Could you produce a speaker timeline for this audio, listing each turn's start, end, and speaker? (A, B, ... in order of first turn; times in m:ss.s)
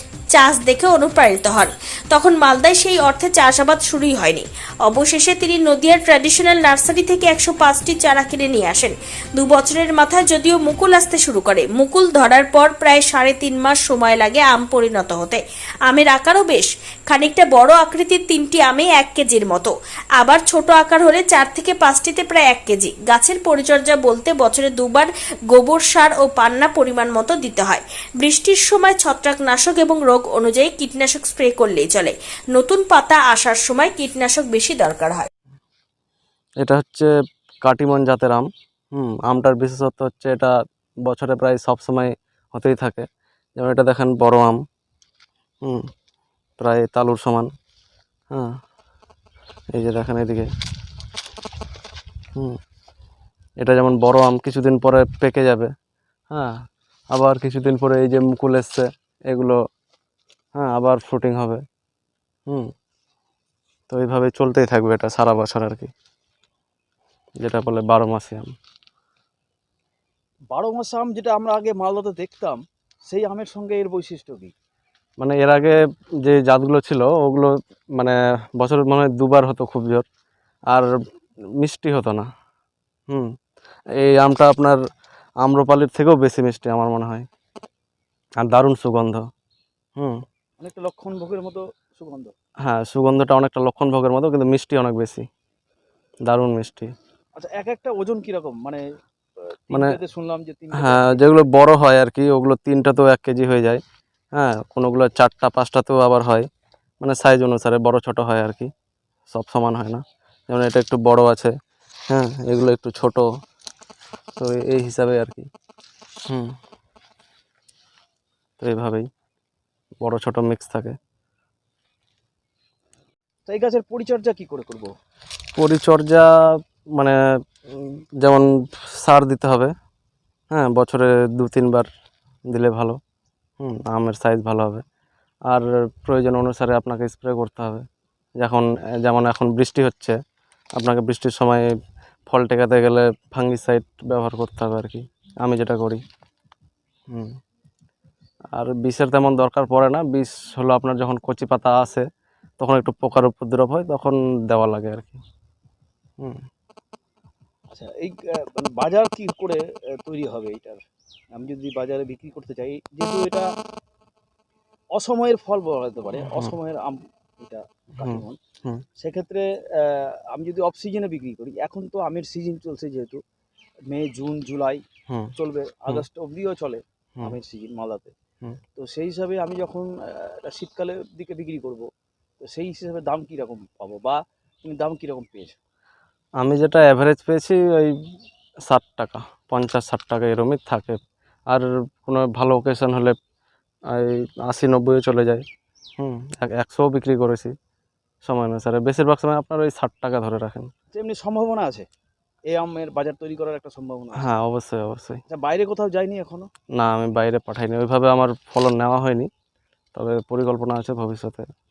0:00.3-0:35.3 A
0:36.6-0:37.1 B
0:37.6-0:40.5 B
0:41.0-0:43.0 B
0:43.6-0:44.6 B
0:46.6-0:47.5 B
0:49.7-0:50.5 B
0:53.6-0:55.7 B
0:57.1-0:59.6 B
1:00.5-1:01.6 B
1:03.9-1:05.9 B
1:07.4-1:08.5 B
1:10.5-1:14.5 C
1:15.2-1:20.0 B
1:21.6-1:22.3 B
1:24.0-1:24.8 B
1:25.4-1:27.2 B
1:28.4-1:29.2 B
1:30.6-1:32.3 C
1:32.6-1:35.2 B
1:36.2-1:36.9 B
1:37.4-1:38.8 C
1:39.7-1:41.2 C
1:40.7-1:43.8 B
1:44.3-1:46.5 B
1:47.0-1:48.7 B
1:49.3-1:51.5 B
1:52.1-1:53.3 B
1:54.4-1:55.5 B
1:56.3-1:56.5 B
1:58.6-1:59.1 B
2:00.0-2:01.0 B
2:03.5-2:04.9 C
2:05.5-2:06.3 B
2:07.7-2:08.5 B
2:09.0-2:09.7 B
2:10.5-2:11.9 B
2:12.5-2:13.0 B
2:13.6-2:14.8 B
2:15.5-2:17.8 B
2:18.4-2:20.2 B
2:20.8-2:21.6 B
2:22.3-2:26.0 B
2:28.5-2:32.0 B
2:32.6-2:35.2 B
2:37.7-2:40.8 C
2:41.3-2:43.5 C
2:44.9-2:48.4 C
2:46.2-2:46.5 B
2:48.0-2:48.8 B
2:49.0-2:53.2 C
2:53.9-2:54.8 C
2:55.4-2:58.1 C
2:58.8-3:01.9 C
3:02.4-3:05.6 C
3:06.4-3:07.9 B
3:08.7-3:11.0 B
3:11.5-3:13.2 B
3:13.9-3:15.4 B
3:16.0-3:17.5 B
3:18.2-3:20.7 B
3:20.9-3:21.9 C
3:22.5-3:24.2 C
3:24.2-3:25.2 B
3:25.3-3:26.5 C
3:26.8-3:29.3 B
3:29.9-3:31.5 B